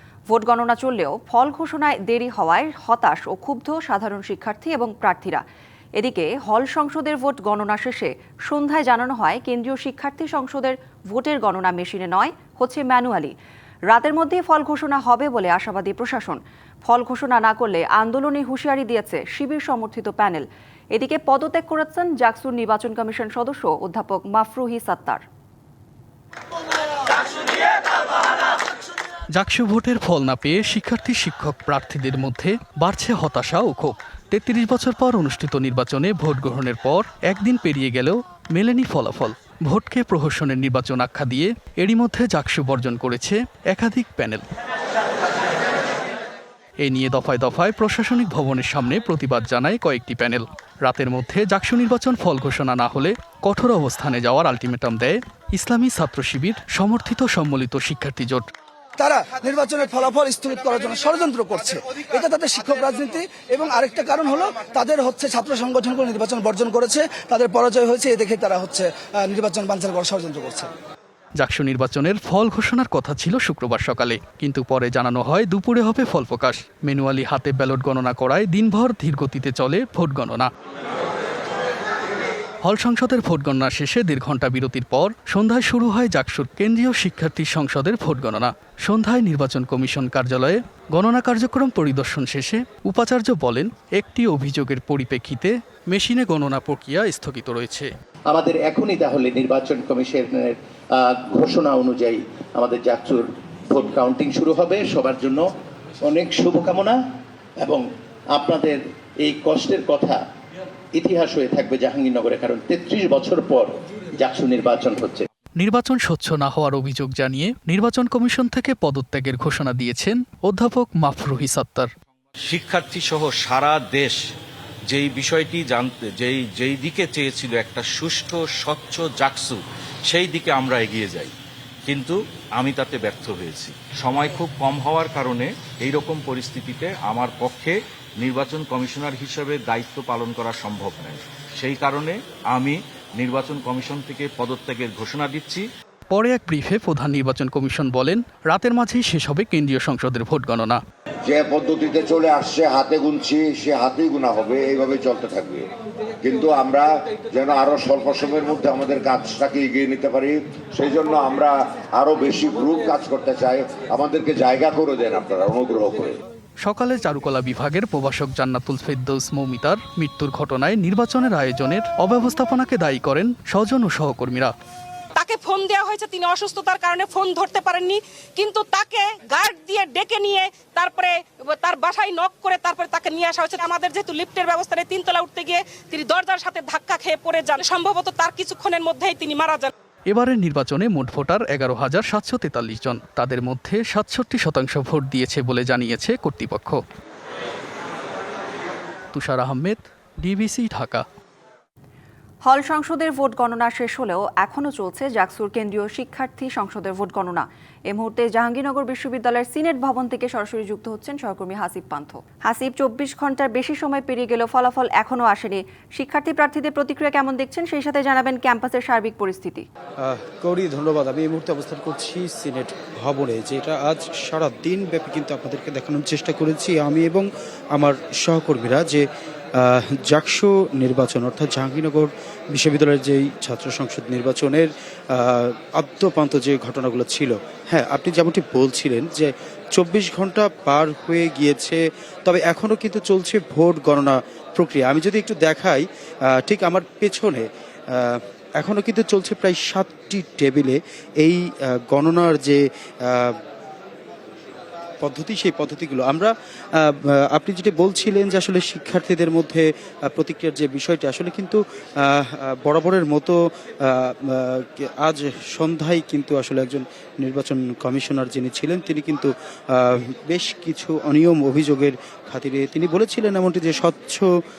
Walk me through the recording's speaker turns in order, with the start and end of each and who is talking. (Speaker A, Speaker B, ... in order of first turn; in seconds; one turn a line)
Speaker A: 0.3-5.4
Speaker A: 6.0-13.3
Speaker A: 13.9-25.2
Speaker B: 29.3-44.4
Speaker B: 46.8-58.4
Speaker C: 59.0-70.7
Speaker B: 71.4-80.5
Speaker B: 82.6-97.9
Speaker D: 98.3-105.5
Speaker D: 106.0-107.0
Speaker D: 107.6-110.2
Speaker D: 111.0-115.3
Speaker B: 115.6-121.9
Speaker E: 122.5-124.2
Speaker E: 124.9-131.3
Speaker E: 131.9-145.6
Speaker B: 146.1-150.8
Speaker F: 151.3-155.7
Speaker F: 156.2-166.2
Speaker B: 166.6-174.5
Speaker G: 175.2-189.7
Speaker B: 190.1-196.8
Speaker B: 199.1-201.1
Speaker A: 202.4-219.7
Speaker H: 220.0-253.4
Speaker H: 255.0-274.3